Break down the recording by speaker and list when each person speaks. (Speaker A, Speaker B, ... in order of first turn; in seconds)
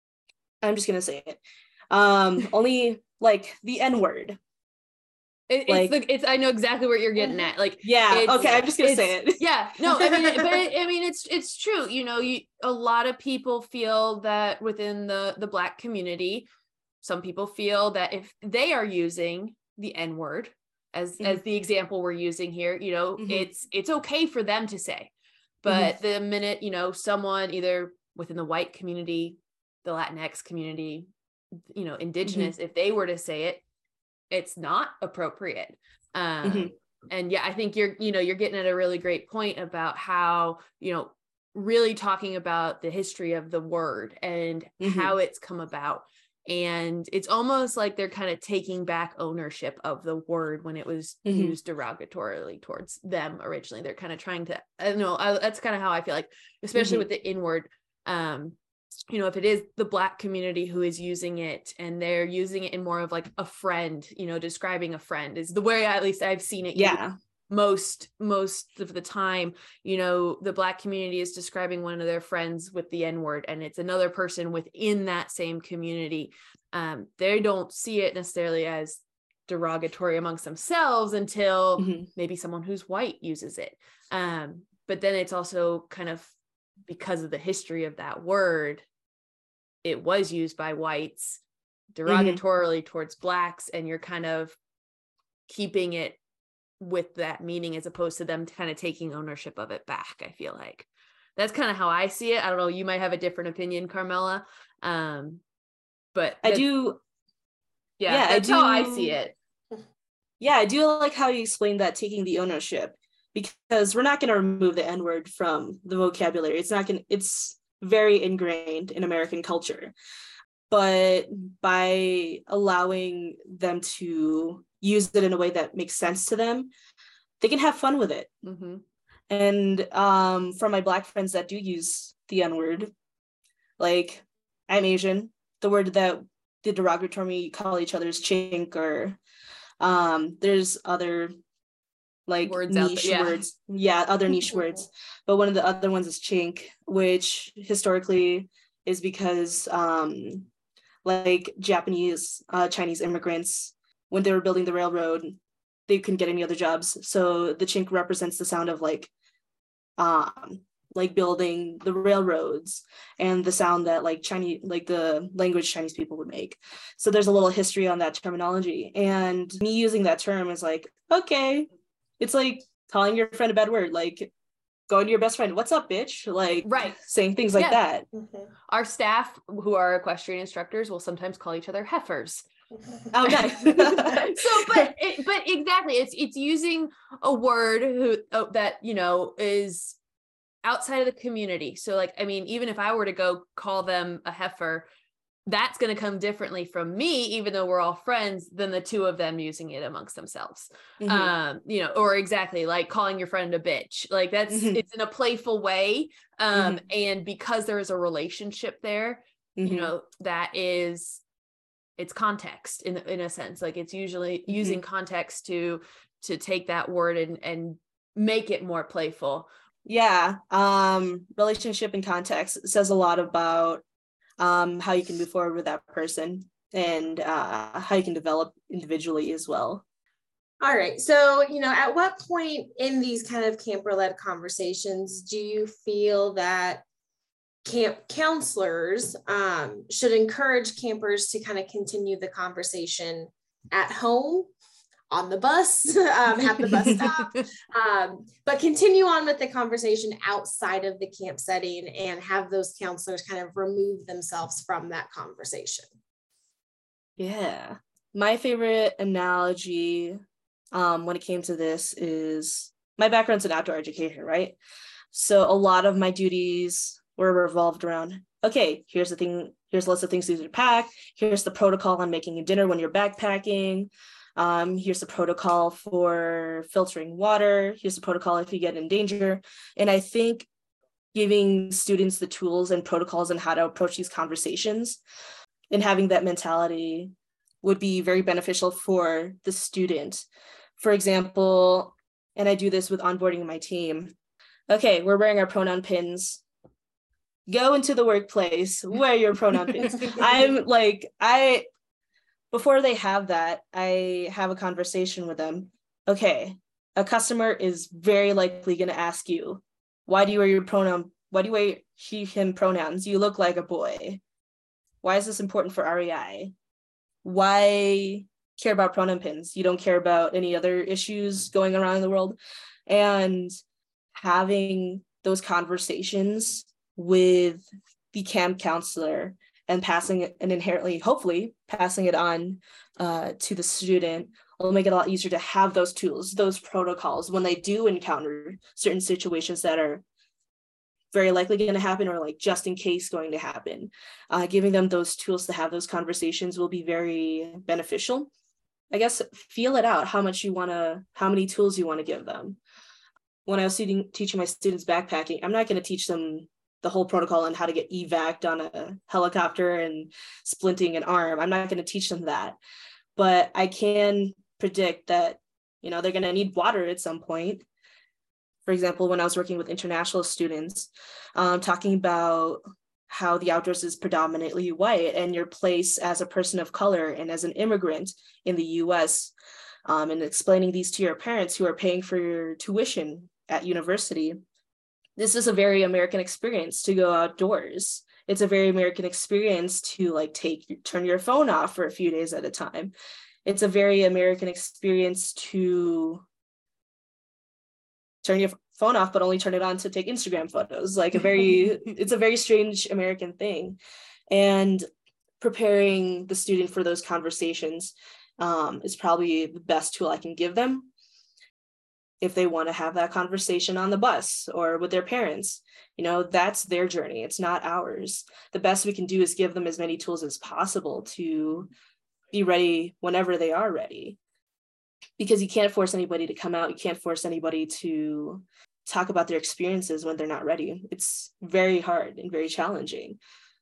Speaker A: 0.6-4.4, 5.7-5.9, 7.8-9.4, 10.0-10.5, 23.2-23.5, 32.2-32.5, 36.4-36.7, 44.8-45.1, 51.2-51.5, 56.8-57.0, 66.7-67.1, 81.8-82.1, 92.0-92.4, 106.4-107.0, 108.1-109.2, 110.4-119.9, 120.7-126.7, 127.4-128.3, 129.3-132.9, 133.8-139.2, 139.8-141.3, 142.3-150.5, 151.0-159.1, 160.0-171.7, 172.2-174.3, 174.9-178.1, 183.1-184.9, 201.0-201.3, 204.5-204.8, 206.5-206.8, 209.6-209.9, 214.5-214.8, 219.8-223.8, 224.4-229.8, 257.2-260.2, 260.7-264.6, 265.1-280.5, 281.1-285.0, 285.7-290.2, 290.8-294.1, 294.7-296.4, 297.5-301.6, 302.5-314.2, 315.0-316.5, 317.2-322.4, 322.9-323.6, 324.1-340.0, 341.1-348.3, 348.9-352.6, 353.4-362.6, 363.1-367.6, 368.6-379.3, 379.9-384.4, 385.2-392.9, 393.4-396.2, 398.2-403.8, 404.3-404.9, 405.4-410.9, 412.2-421.7, 422.3-424.2, 425.2-433.2
Speaker B: 5.5-16.5, 17.0-25.1, 25.6-31.1, 31.7-33.6, 34.3-58.5, 59.1-86.3, 86.9-88.8, 89.8-91.4, 91.9-94.6, 95.5-96.2, 96.8-105.4, 106.1-106.7, 108.0-109.3, 128.4-128.8, 142.4-143.4, 176.6-177.0, 177.5-177.8, 178.7-182.4, 183.6-190.0, 190.6-194.9, 195.4-211.2, 212.0-219.5
Speaker C: 230.6-236.8, 237.6-244.5, 245.1-255.9